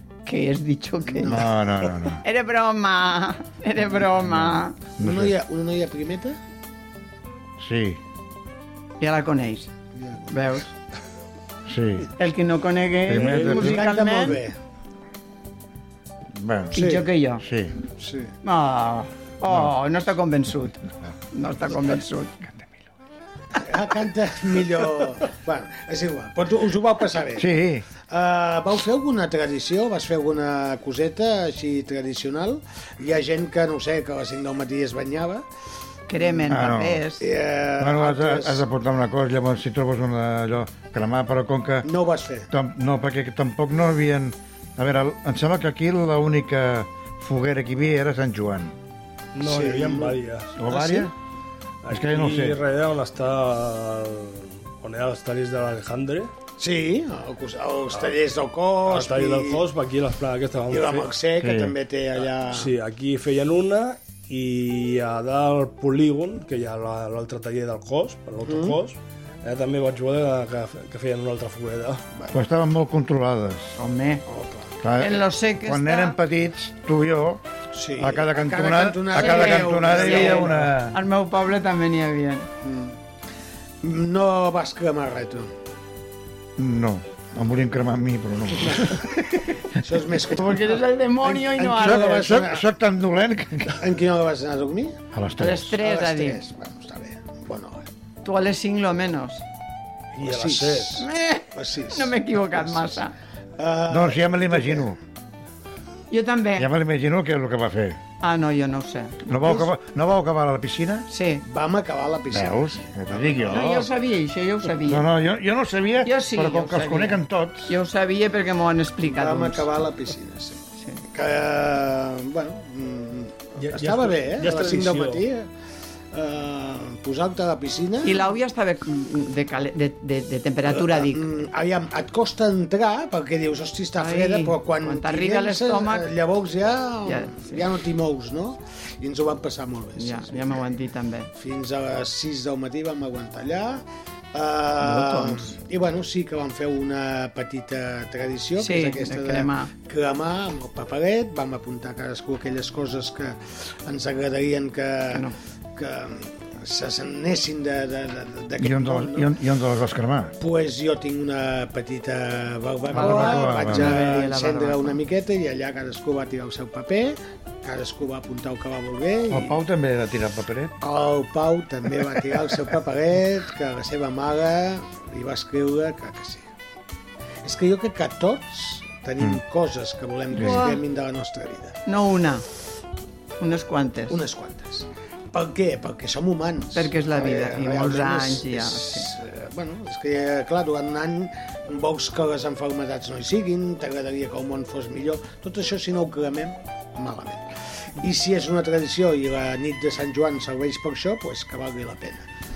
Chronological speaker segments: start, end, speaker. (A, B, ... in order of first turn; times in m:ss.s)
0:00.3-0:01.4 A
0:01.1-0:01.5 B
0:01.2-0:02.2 C
0:02.2-0:04.8 A
0:04.1-0:05.4 C
0:05.0-0:06.4 B
0:07.6-0:08.0 C
0:09.0-0:09.7 A
0:10.0-0:10.3 B
0:10.3-0:10.7 A
0:11.7-0:12.1 C
0:12.2-0:14.4 A
0:13.1-0:13.9 C
0:13.2-0:13.5 D
0:13.4-0:14.6 B
0:16.3-0:17.8 C
0:16.7-0:17.4 A
0:16.8-0:17.0 B
0:18.0-0:18.3 B
0:18.4-0:22.4 A
0:23.6-0:27.5 B
0:27.4-0:27.9 C
0:28.1-0:35.4 B
0:36.1-0:37.2 A
0:36.2-0:36.6 B
0:36.5-0:37.0 C
0:37.2-0:38.6 B
0:37.8-0:41.9 C
0:41.8-0:42.5 B
0:42.5-0:48.7 C
0:49.4-0:50.6 D
0:49.4-0:50.2 B
0:50.6-0:51.1 C
0:50.7-0:51.0 B
0:51.8-0:56.3 D
0:51.9-0:52.6 C
0:56.6-0:59.6 B
0:58.9-1:01.1 D
1:00.7-1:02.7 B
1:01.4-1:01.8 C
1:02.5-1:12.0 D
1:08.4-1:08.8 B
1:12.3-1:13.8 C
1:13.8-1:14.2 A
1:14.3-1:14.7 B
1:14.8-1:17.4 C
1:15.0-1:16.2 A
1:17.7-1:20.7 B
1:18.0-1:21.0 C
1:19.1-1:22.5 A
1:22.6-1:23.0 B
1:23.8-1:25.5 B
1:26.6-1:29.2 C
1:29.8-1:32.7 B
1:30.4-1:32.4 A
1:31.7-1:33.8 C
1:33.8-1:35.0 B
1:35.1-1:35.8 C
1:35.4-1:36.4 A
1:35.8-1:37.8 B
1:38.2-1:39.4 A
1:40.2-1:41.0 D
1:40.2-1:43.0 B
1:41.0-1:43.1 A
1:43.6-1:44.9 B
1:43.9-1:45.0 C
1:46.1-1:46.7 A
1:46.6-1:48.0 C
1:48.2-1:49.2 A
1:49.2-1:51.1 C
1:49.4-1:49.7 B
1:51.1-1:51.4 A
1:51.5-1:53.9 B
1:52.3-1:53.9 C
1:53.5-1:55.1 A
1:54.8-1:57.7 C
1:56.0-1:59.7 A
1:59.0-2:05.5 B
2:03.6-2:05.2 D
2:06.1-2:08.3 B
2:08.0-2:11.2 A
2:10.7-2:20.7 B
2:14.0-2:16.1 A
2:17.1-2:17.6 A
2:20.0-2:21.3 A
2:21.4-2:39.3 B
2:24.8-2:25.6 A
2:28.6-2:29.7 A
2:38.6-2:40.4 C
2:40.4-2:49.6 B
2:42.9-2:44.1 C
2:42.9-2:45.0 A
2:49.3-2:50.8 C
2:50.8-2:56.5 B
2:57.4-3:01.8 B
3:00.3-3:00.8 A
3:01.9-3:02.4 A
3:03.4-3:04.2 A
3:04.1-3:22.3 B
3:06.8-3:09.1 A